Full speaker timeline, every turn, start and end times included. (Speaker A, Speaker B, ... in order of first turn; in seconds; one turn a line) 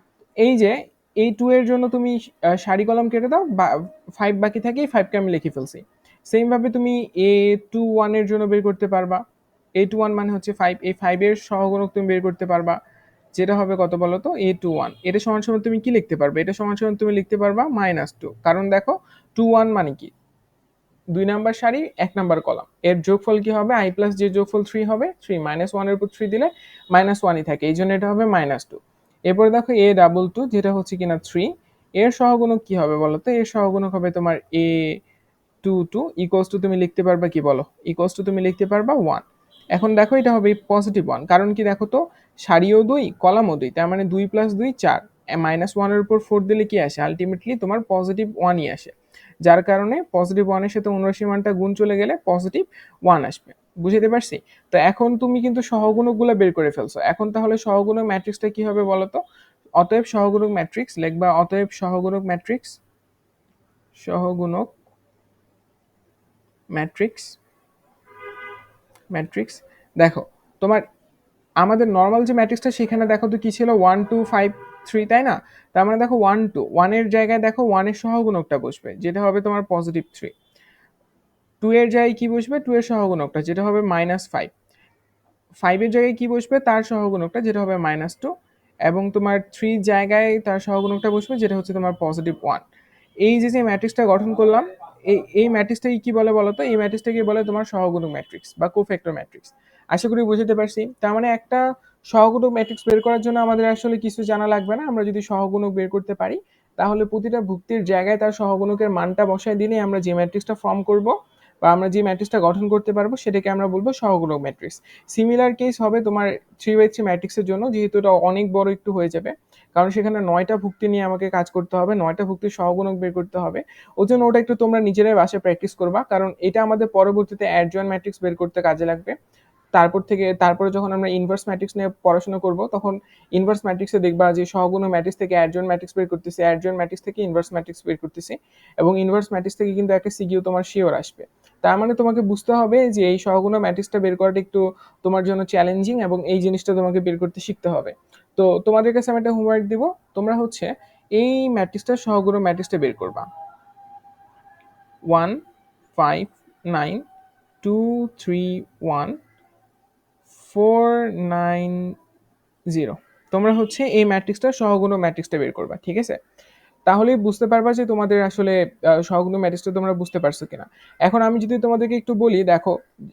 Speaker A: 0.4-9.2
Speaker A: 9.8-12.8
Speaker A: 13.4-20.1
Speaker A: 21.1-35.0
Speaker A: 35.6-48.9
Speaker A: 49.5-59.2
Speaker A: 59.8-62.8
Speaker A: 64.0-64.7
Speaker A: 66.7-67.4
Speaker A: 69.1-70.8
Speaker A: 71.6-80.3
Speaker A: 81.6-84.5
Speaker A: 85.6-88.3
Speaker A: 88.9-92.6
Speaker A: 93.2-129.2
Speaker A: 129.7-153.3
Speaker A: 155.1-155.4
Speaker A: 156.0-157.0
Speaker A: 157.6-159.2
Speaker A: 160.4-161.9
Speaker A: 162.7-166.2
Speaker A: 166.9-172.7